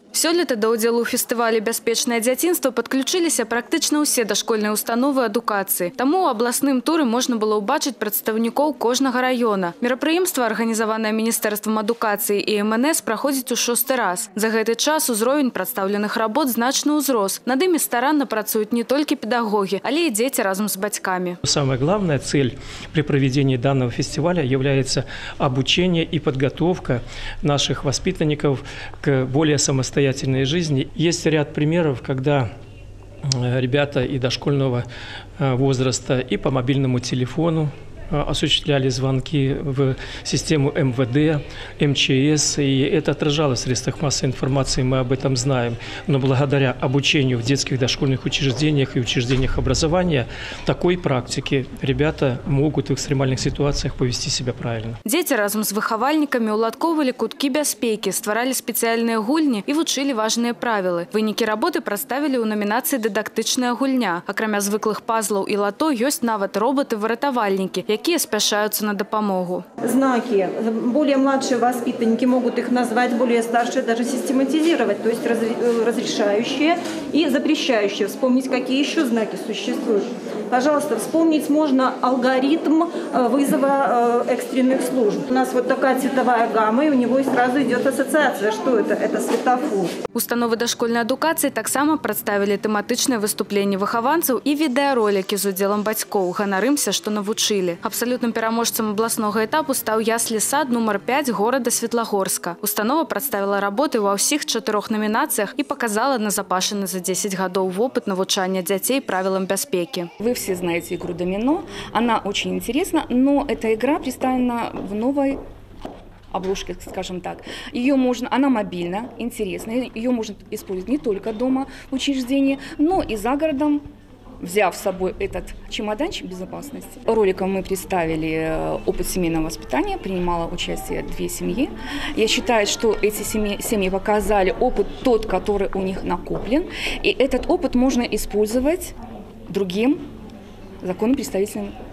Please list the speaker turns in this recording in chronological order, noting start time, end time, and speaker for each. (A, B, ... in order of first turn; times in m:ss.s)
0:00.1-0:21.4 A
0:21.4-0:32.5 B
0:33.4-0:34.8 B
0:35.4-0:55.0 B
0:55.0-1:09.6 A
1:09.8-1:29.9 C
1:30.1-1:50.1 A
1:50.2-1:55.4 D
1:56.3-2:03.8 D
2:04.4-2:18.9 D
2:19.5-2:20.0 D
2:20.8-2:21.7 D